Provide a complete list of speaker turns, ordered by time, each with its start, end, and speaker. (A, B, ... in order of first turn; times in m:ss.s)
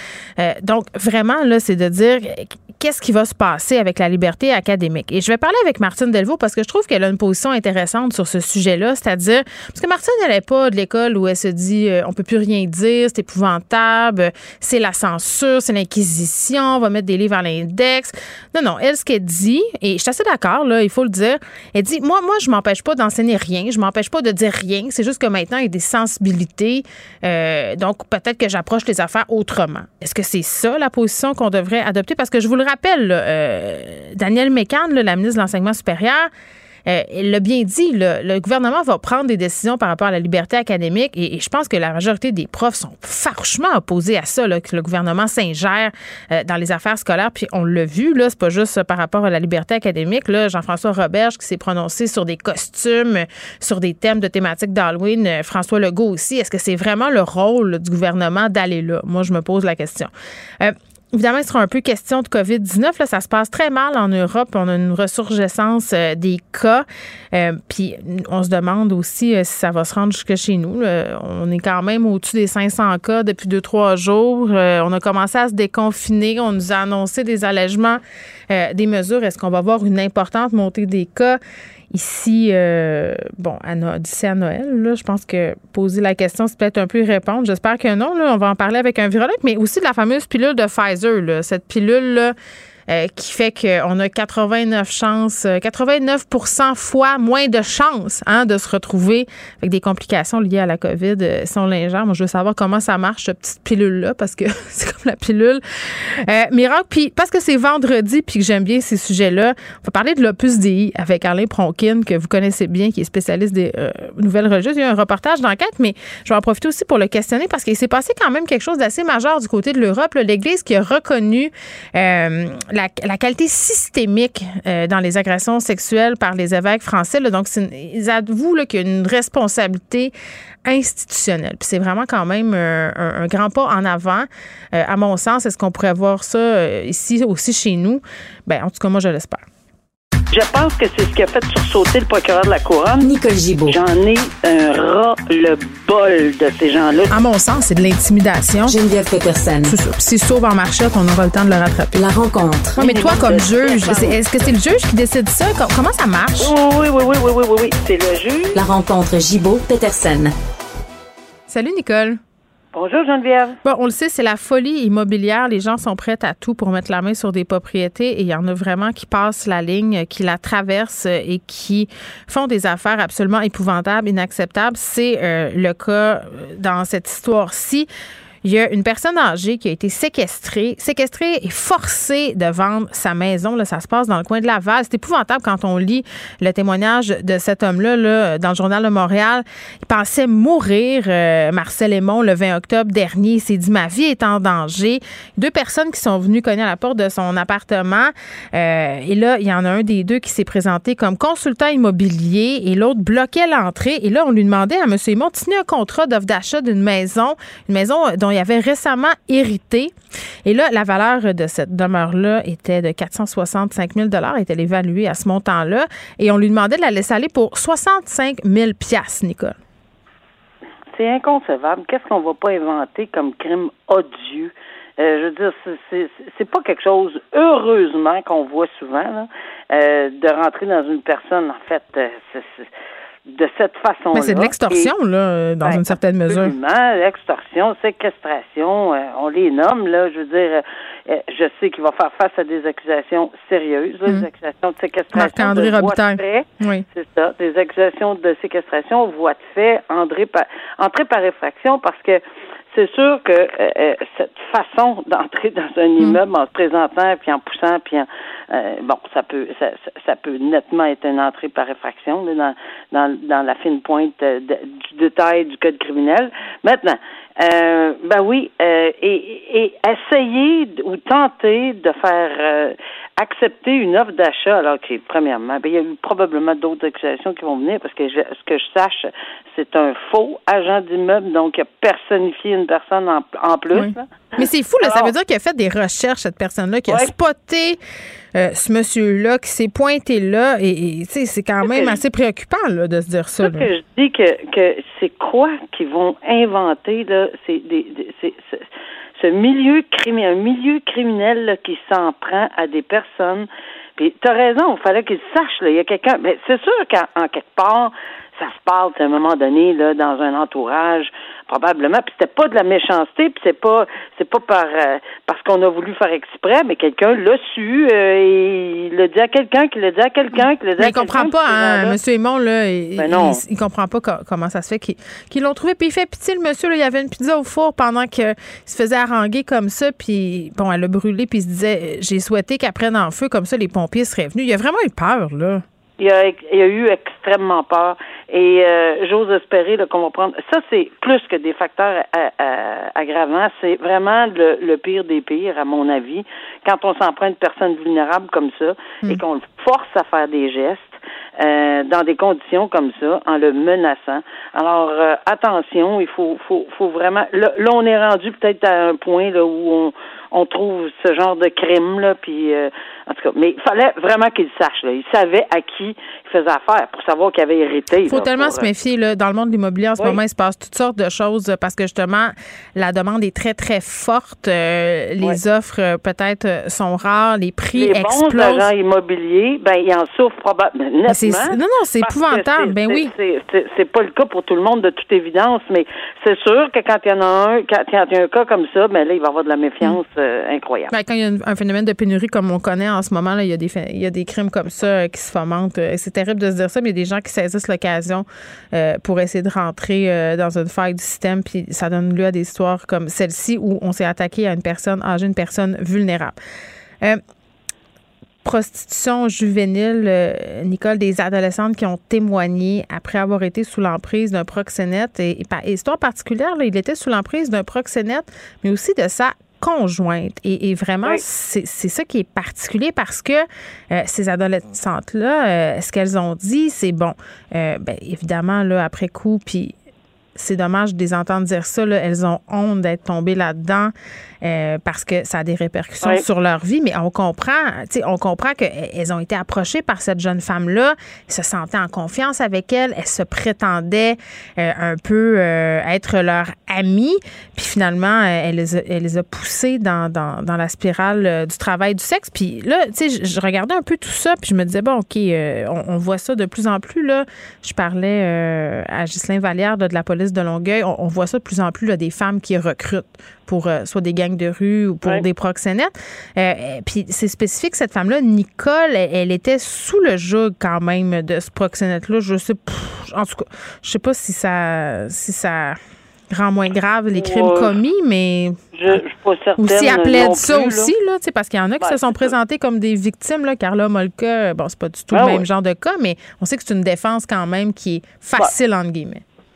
0:00.4-0:36.3 A
0:36.9-1:21.4 A
1:21.9-1:32.4 A
1:32.9-2:10.1 A
2:10.6-2:19.4 A
2:20.3-2:23.1 B
2:23.0-2:23.8 C
2:23.7-2:27.1 B
2:27.1-2:28.8 A
2:28.7-2:29.8 C
2:29.7-2:32.0 A
2:31.9-2:33.4 C
2:32.8-2:36.5 A
2:32.8-2:34.2 B
2:36.4-2:38.6 B
2:38.6-2:40.4 C
2:41.5-2:42.2 A
2:42.7-2:43.6 B
2:43.6-2:57.9 A
2:58.4-3:29.9 A
3:30.4-3:39.6 A
3:40.9-3:52.7 B
3:53.3-3:54.9 B
3:54.1-3:56.5 A
3:55.7-4:45.1 B
4:05.1-4:06.8 A
4:43.7-4:47.8 A
4:48.3-4:53.7 A
4:51.7-4:52.0 B
4:53.4-4:58.7 B
4:59.2-5:22.0 B
5:20.4-5:35.6 A
5:23.0-5:23.4 B
5:36.0-6:08.7 B
6:08.1-6:18.7 A
6:17.8-6:30.9 B
6:21.1-6:23.1 A
6:30.9-6:46.4 A
6:48.4-7:09.8 A
7:10.4-7:55.8 A
7:56.3-7:59.0 A
7:57.2-7:57.7 B
7:58.7-8:00.9 B
7:59.6-8:09.2 A
8:01.8-8:02.3 B
8:05.1-8:05.4 B